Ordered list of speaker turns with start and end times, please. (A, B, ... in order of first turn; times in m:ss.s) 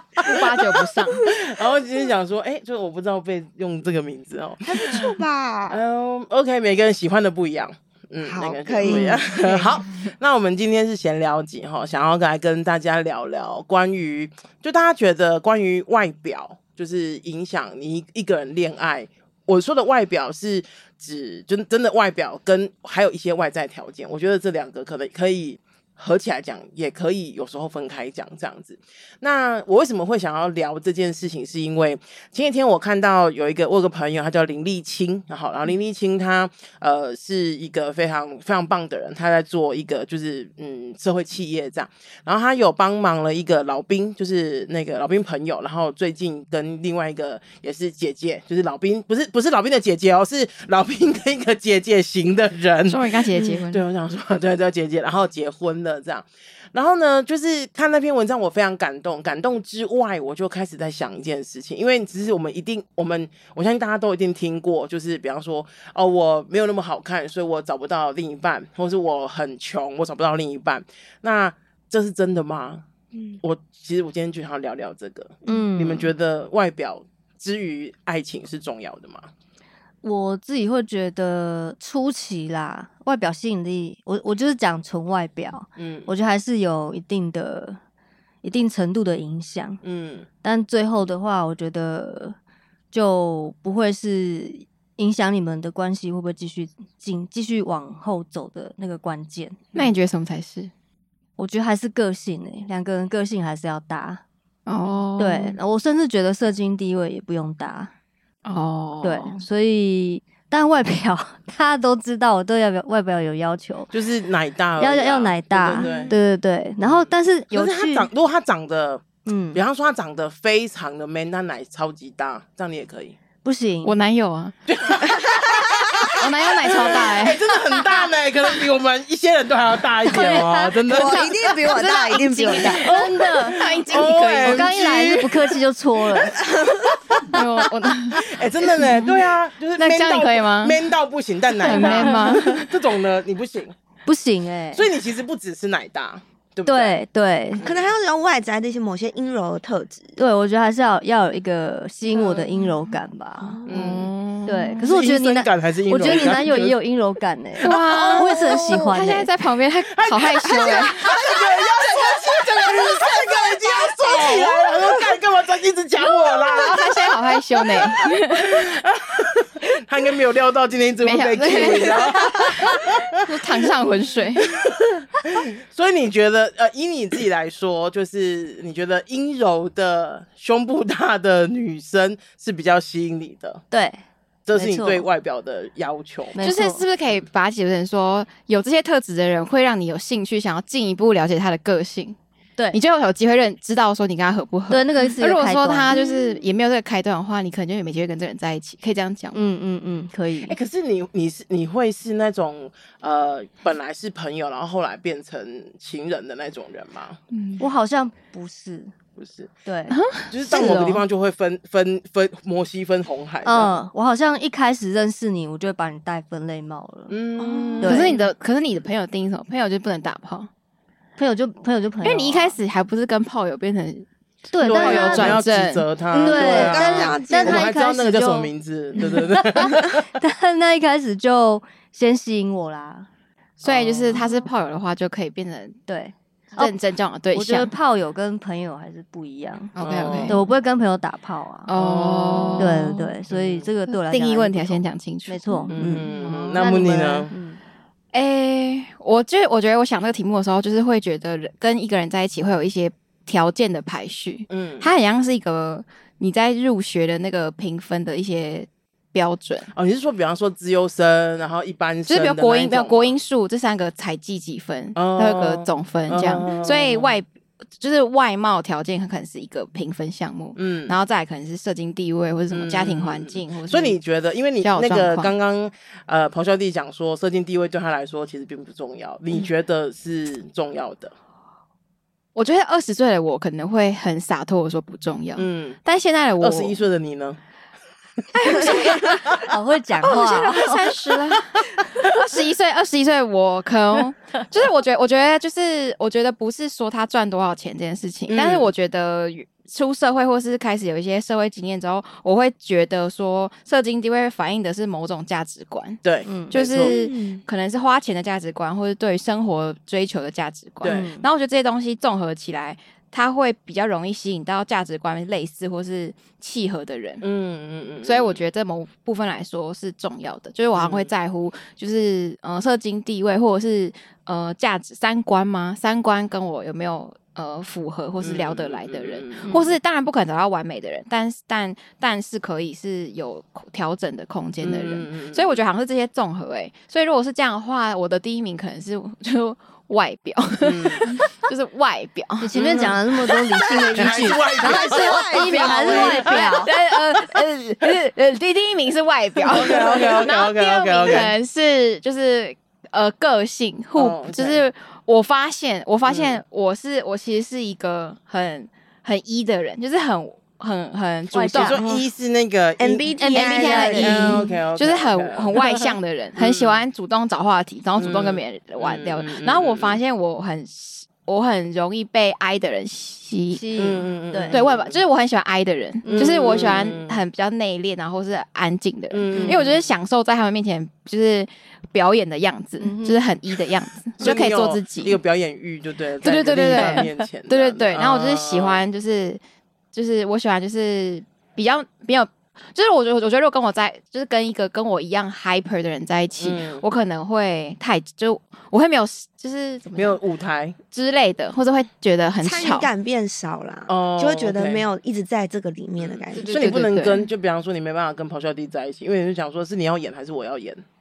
0:00.2-0:01.2 A
0:01.2-1:12.8 B
0:04.6-0:05.8 C
0:08.2-0:09.8 C
0:52.9-0:53.8 A
1:13.4-1:19.3 B
1:15.5-1:16.1 D
1:20.0-1:27.8 D
1:25.8-1:26.1 B
1:28.4-1:29.8 D
1:29.8-1:30.3 B
1:30.4-1:32.4 D
1:32.9-1:39.7 D
1:39.8-1:40.7 A
1:41.4-1:44.2 D
1:44.7-1:45.6 A
1:45.2-1:47.9 D
1:48.4-1:49.4 A
1:49.0-1:53.9 D
1:53.9-1:56.2 B
1:54.8-1:58.1 D
1:55.7-1:56.2 C
1:56.8-1:59.0 B
1:59.2-1:59.6 D
1:59.5-2:03.2 B
2:03.4-2:03.9 D
2:03.8-2:04.5 A
2:04.7-2:11.4 B
2:05.0-2:06.2 C
2:06.2-2:07.4 A
2:10.1-2:14.8 A
2:10.1-2:10.8 D
2:10.9-2:12.8 C
2:12.7-2:15.6 B
2:12.8-2:13.6 D
2:14.4-2:16.4 D
2:16.4-2:17.0 C
2:17.3-2:18.2 A
2:18.3-2:23.7 B
2:18.8-2:19.1 A
2:19.8-2:20.8 A
2:21.6-2:22.7 A
2:21.6-2:22.6 D
2:24.0-2:24.9 D
2:24.7-2:27.0 B
2:26.6-2:27.6 D
2:27.6-2:27.9 B
2:27.6-2:30.2 C
2:30.2-2:33.6 D
2:32.2-2:32.7 A
2:33.6-2:34.9 A
2:33.6-2:34.1 B
2:34.5-2:39.3 D
2:34.8-2:36.8 B
2:37.6-2:38.9 B
2:37.6-2:41.1 A
2:39.9-2:47.4 B
2:40.5-2:45.2 C
2:46.0-2:46.8 C
2:46.7-2:48.6 A
2:48.0-2:53.1 B
2:51.0-2:54.5 A
2:54.4-3:03.6 B
3:03.7-3:04.0 D
3:04.5-3:06.4 B
3:04.5-3:05.1 D
3:06.3-3:06.8 D
3:06.4-3:12.2 A
3:12.7-3:19.4 A
3:14.7-3:16.0 D
3:19.3-3:20.6 D
3:20.4-3:27.2 B
3:27.3-3:27.6 A
3:27.6-3:28.9 D
3:29.2-3:29.5 B
3:29.7-3:31.0 D
3:29.9-3:30.3 A
3:30.3-3:33.7 B
3:33.4-3:38.2 D
3:37.1-3:38.2 B
3:37.8-3:40.5 A
3:41.2-3:42.6 D
3:42.0-3:44.1 A
3:44.5-3:45.4 D
3:44.6-3:50.1 B
3:44.6-3:45.9 A
3:46.1-3:47.7 C
3:46.1-3:53.1 D
3:53.6-3:55.8 A
3:53.6-3:54.2 B
3:54.1-3:54.4 D
3:55.9-3:56.7 D
3:56.6-3:57.7 A
3:57.3-4:01.7 D
3:59.8-4:00.4 A
3:59.8-4:00.4 B
4:01.7-4:03.2 A
4:01.8-4:02.8 B
4:02.6-4:07.6 D
4:03.3-4:03.7 B
4:03.9-4:06.6 A
4:05.7-4:07.3 B
4:08.1-4:19.7 A
4:14.5-4:14.9 B
4:19.7-4:23.2 B
4:22.1-4:34.0 A
4:25.0-4:27.2 B
4:30.6-4:31.0 B
4:32.5-4:41.1 B
4:34.6-4:35.3 A
4:42.4-4:46.8 A
4:45.4-4:45.8 B
4:46.4-4:47.4 B
4:48.4-4:49.4 A
4:48.5-4:49.5 B
4:48.5-4:50.9 D
4:50.0-5:17.2 A
4:58.3-4:58.7 B
5:06.0-5:07.0 B
5:06.3-5:06.6 D
5:06.8-5:07.4 C
5:10.8-5:11.1 B
5:10.8-5:11.3 D
5:17.2-5:18.4 B
5:18.0-5:42.6 A
5:20.8-5:21.1 B
5:28.2-5:29.6 B
5:34.6-5:35.6 B
5:40.6-5:41.1 B
5:42.4-5:46.7 D
5:42.5-5:43.0 B
5:43.7-5:46.3 C
5:44.0-5:46.4 B
5:45.3-6:01.8 A
5:49.5-5:51.3 B
5:54.0-5:54.6 B
5:56.1-5:56.4 B
6:01.3-6:02.1 D
6:01.3-6:03.1 B
6:02.8-6:04.3 C
6:03.2-6:13.6 A
6:03.2-6:04.6 D
6:03.9-6:05.8 B
6:06.4-6:06.8 B
6:08.0-6:10.0 B
6:13.5-6:14.6 D
6:13.8-6:15.0 B
6:14.5-6:25.2 A
6:16.0-6:17.2 B
6:16.1-6:16.4 D
6:19.1-6:19.8 B
6:19.3-6:19.6 D
6:22.8-6:23.2 D
6:24.2-6:28.8 B
6:26.2-6:29.4 A
6:26.7-6:27.1 D
6:29.9-6:40.2 A
6:36.4-6:36.8 B
6:40.0-6:40.8 B
6:40.9-6:42.9 A
6:42.4-6:46.7 C
6:43.9-6:44.8 B
6:46.0-6:50.8 B
6:46.3-6:47.3 A